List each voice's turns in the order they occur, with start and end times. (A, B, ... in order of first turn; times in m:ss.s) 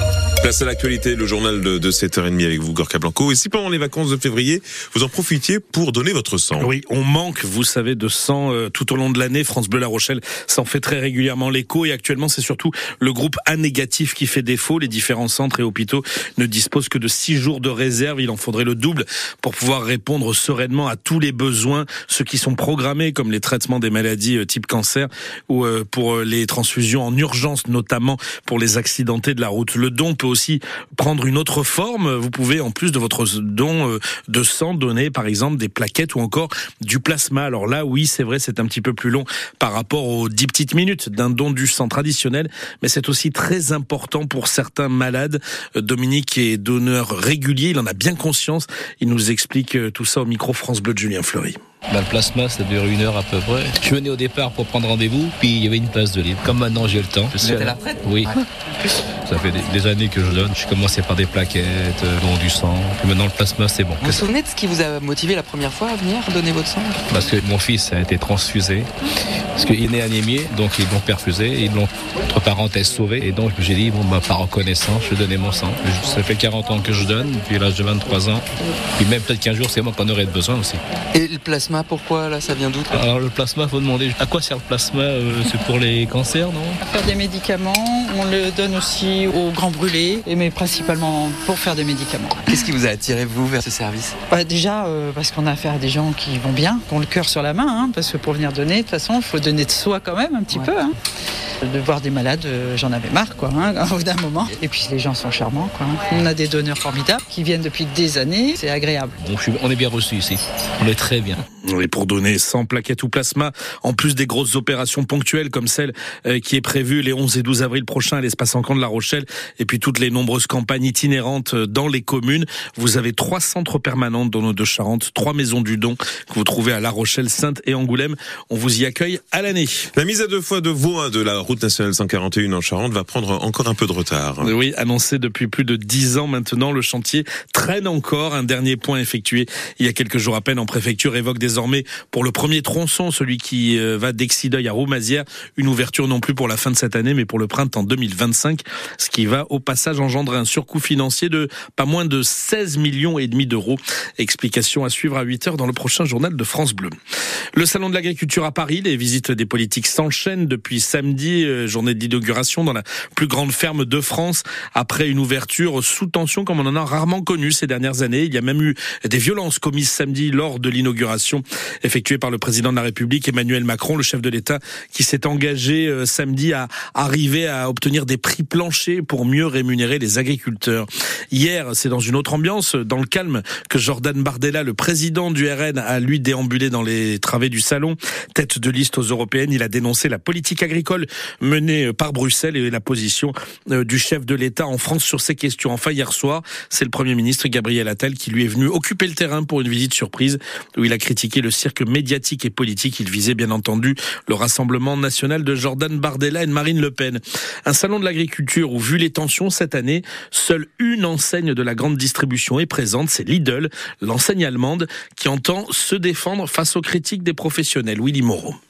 0:00.4-0:06.7 A
0:06.6-0:51.6 B
0:51.9-0:58.4 C
0:57.4-0:58.4 D
0:59.2-1:04.2 C
1:04.0-1:07.3 D
1:07.1-1:08.9 C
1:09.6-1:18.4 C
1:19.0-1:20.8 C
1:21.1-1:23.0 D
1:22.9-1:26.8 C
1:26.8-1:32.7 E
1:32.5-1:34.2 D
1:34.3-1:41.0 E
1:41.6-1:49.2 E
1:49.2-1:51.4 C
1:51.7-2:09.8 B
2:09.9-2:14.5 A
2:14.4-2:36.9 B
2:37.5-3:38.6 B